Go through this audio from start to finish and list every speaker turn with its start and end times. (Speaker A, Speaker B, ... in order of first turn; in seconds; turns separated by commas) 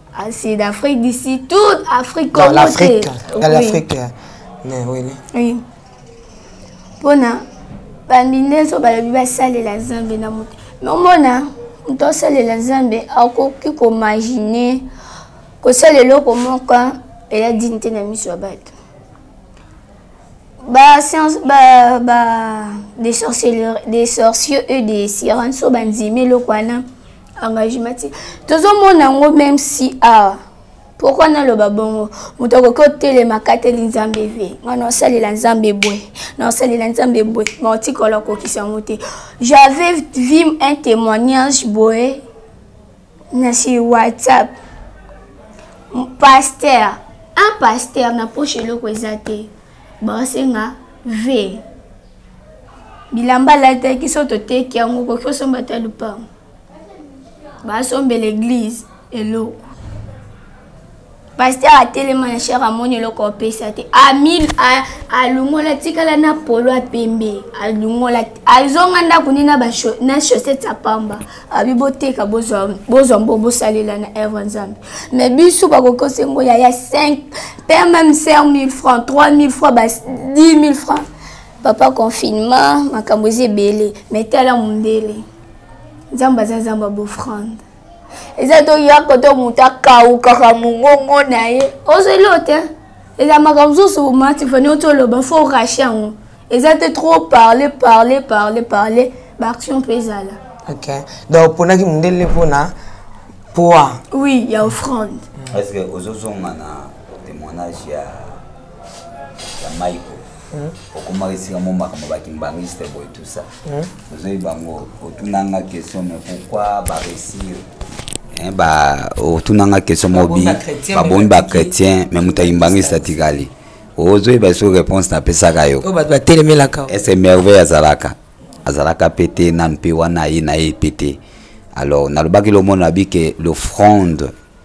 Speaker A: 0.2-3.8, Speaker B: 2.3-5.2, Speaker A: 5.3-5.6, Speaker A: 7.0-7.4, Speaker A: 8.1-14.9, Speaker A: 15.6-18.7, Speaker A: 20.6-26.8, Speaker A: 27.4-30.4, Speaker A: 31.0-42.2, Speaker A: 43.3-44.5, Speaker A: 45.9-49.5, Speaker A: 50.0-51.6, Speaker A: 53.1-56.2, Speaker A: 57.6-59.6, Speaker A: 61.4-81.0, Speaker A: 81.6-85.2, Speaker A: 86.1-87.6, Speaker A: 88.4-92.7, Speaker A: 93.2-100.4, Speaker B: 100.7-102.7, Speaker B: 103.5-104.0, Speaker A: 104.1-105.3, Speaker C: 105.5-108.3, Speaker C: 109.6-110.2, Speaker C: 110.9-113.5, Speaker C: 114.1-117.7, Speaker C: 118.3-125.9, Speaker B: 120.1-123.1, Speaker B: 125.8-126.9, Speaker C: 126.9-131.2, Speaker C: 131.8-134.3